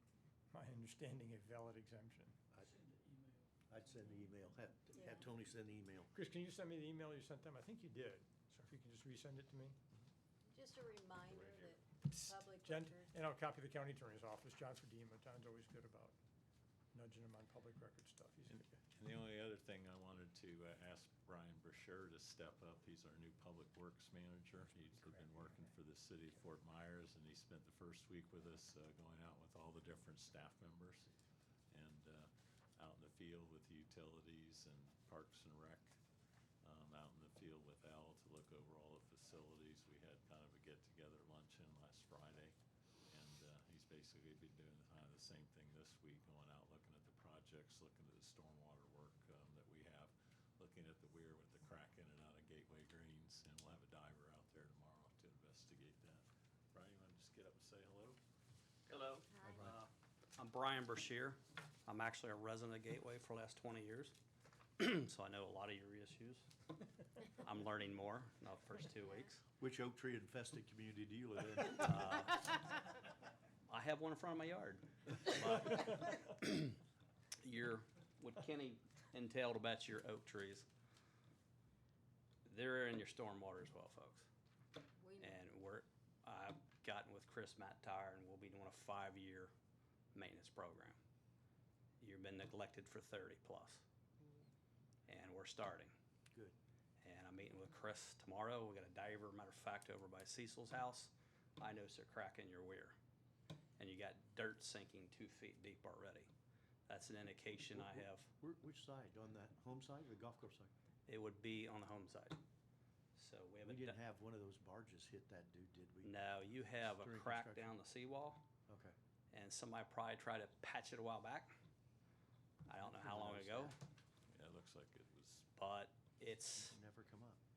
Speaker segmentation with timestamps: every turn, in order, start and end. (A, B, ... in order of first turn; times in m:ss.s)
0:00.5-0:02.4 A
0:03.7-0:06.1 B
0:04.9-0:05.2 C
0:06.1-0:09.8 A
0:10.5-0:13.1 C
0:11.3-0:11.6 D
0:12.1-0:16.2 A
0:16.9-0:18.8 A
0:18.5-0:31.1 D
0:25.0-0:25.5 A
0:31.7-0:35.9 D
0:36.6-0:42.5 D
0:43.1-0:58.2 D
0:58.9-1:04.1 E
0:59.3-0:59.7 C
0:59.4-0:59.8 B
1:04.8-1:06.5 E
1:07.2-1:09.4 E
1:09.6-1:12.0 B
1:11.7-1:12.9 E
1:13.7-1:16.8 E
1:17.4-1:20.6 E
1:22.4-1:24.3 E
1:25.0-1:25.4 C
1:25.2-1:29.5 E
1:30.1-1:31.0 E
1:32.0-1:33.8 E
1:34.2-1:34.5 C
1:35.1-1:35.9 E
1:37.0-1:43.0 E
1:43.8-1:46.3 E
1:46.9-1:48.3 E
1:47.6-1:50.7 B
1:51.1-1:52.4 E
1:53.2-1:54.0 E
1:53.6-1:56.1 B
1:56.0-1:58.4 E
1:56.8-1:57.7 B
1:58.7-1:58.9 B
1:59.3-2:01.5 E
2:02.7-2:03.8 E
2:02.8-2:03.7 B
2:04.3-2:05.5 D
2:05.6-2:06.8 E
2:06.6-2:07.4 B